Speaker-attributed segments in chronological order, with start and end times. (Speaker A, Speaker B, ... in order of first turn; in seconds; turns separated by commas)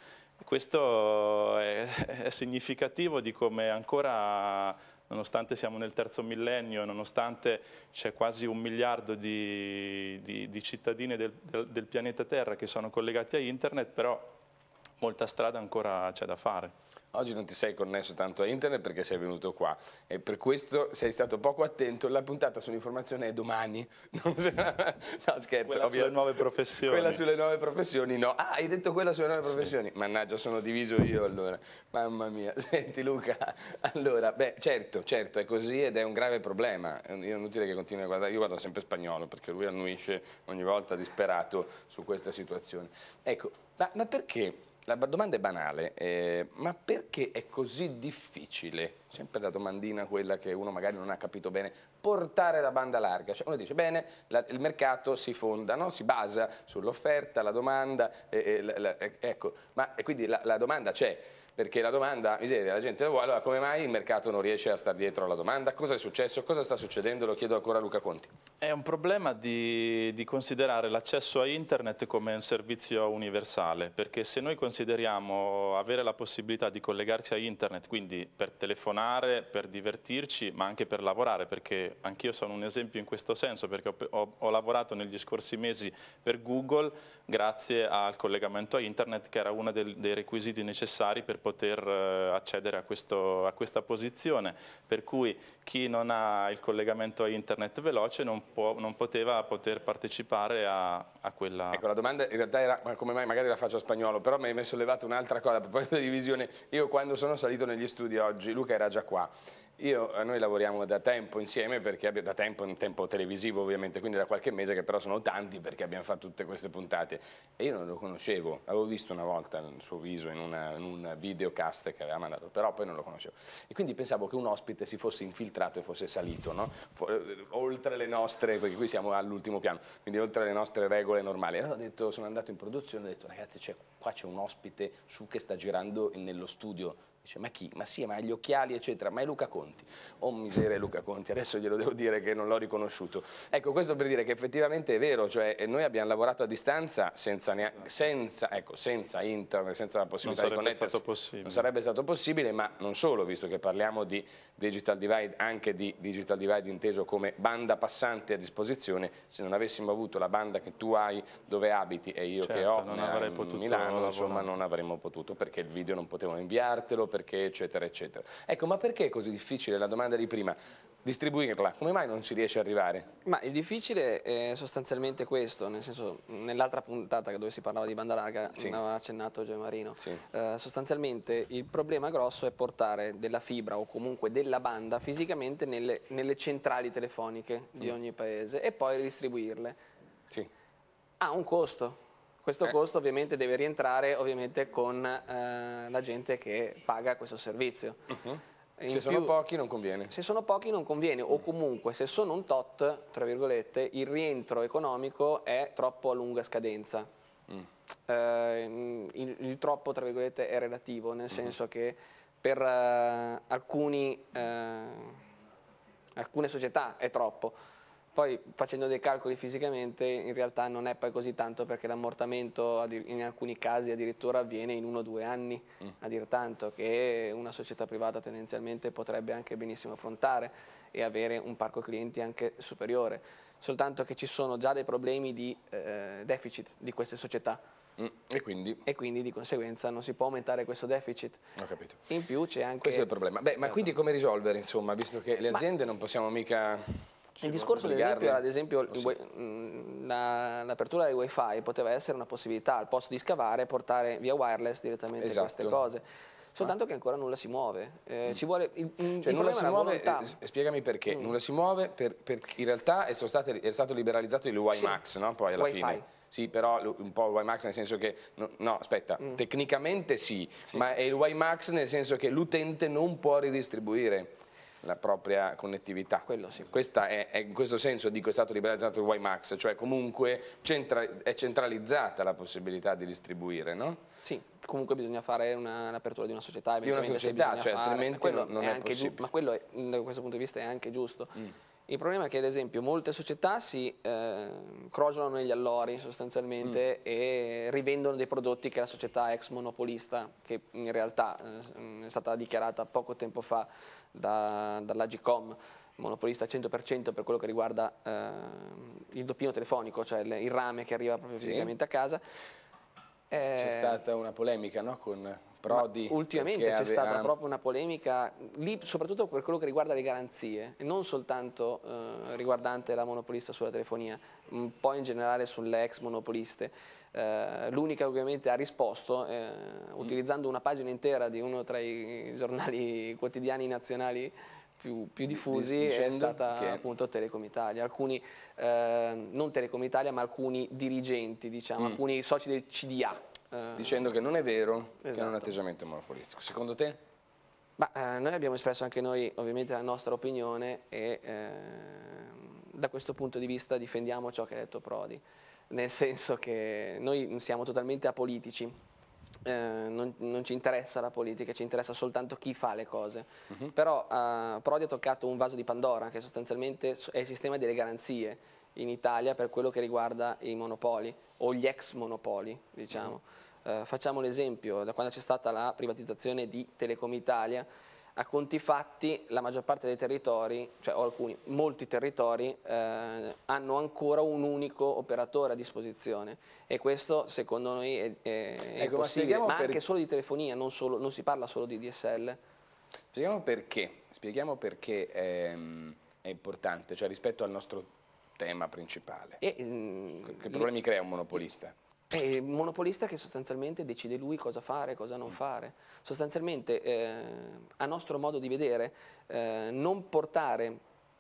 Speaker A: 0.4-14.3, Speaker A: 15.0-16.7, Speaker B: 17.1-68.3, Speaker A: 25.7-27.2, Speaker A: 68.6-101.8, Speaker B: 101.7-173.1, Speaker A: 150.2-151.7, Speaker A: 162.4-164.5, Speaker C: 173.2-189.8, Speaker C: 191.2-198.1, Speaker B: 198.1-200.1, Speaker C: 198.8-199.4, Speaker C: 200.1-207.1, Speaker C: 208.1-215.2, Speaker C: 216.2-217.5, Speaker C: 218.2-237.6, Speaker B: 238.0-238.8, Speaker C: 238.8-241.4, Speaker B: 241.6-242.1, Speaker C: 242.1-243.1, Speaker B: 242.8-249.2, Speaker C: 247.4-256.0, Speaker B: 255.2-255.8, Speaker C: 256.6-260.4, Speaker B: 259.2-284.0, Speaker C: 265.6-266.1, Speaker C: 276.3-276.7, Speaker C: 284.2-312.2, Speaker B: 286.8-289.3, Speaker B: 311.4-311.7, Speaker C: 313.3-314.0, Speaker B: 313.6-317.3, Speaker C: 315.7-344.0, Speaker B: 335.3-336.9, Speaker B: 343.8-347.0, Speaker C: 345.0-345.5, Speaker C: 347.8-358.8, Speaker C: 359.4-392.4, Speaker B: 388.8-389.8, Speaker B: 393.1-399.4, Speaker C: 399.4-400.7, Speaker B: 400.3-401.7, Speaker C: 402.1-410.8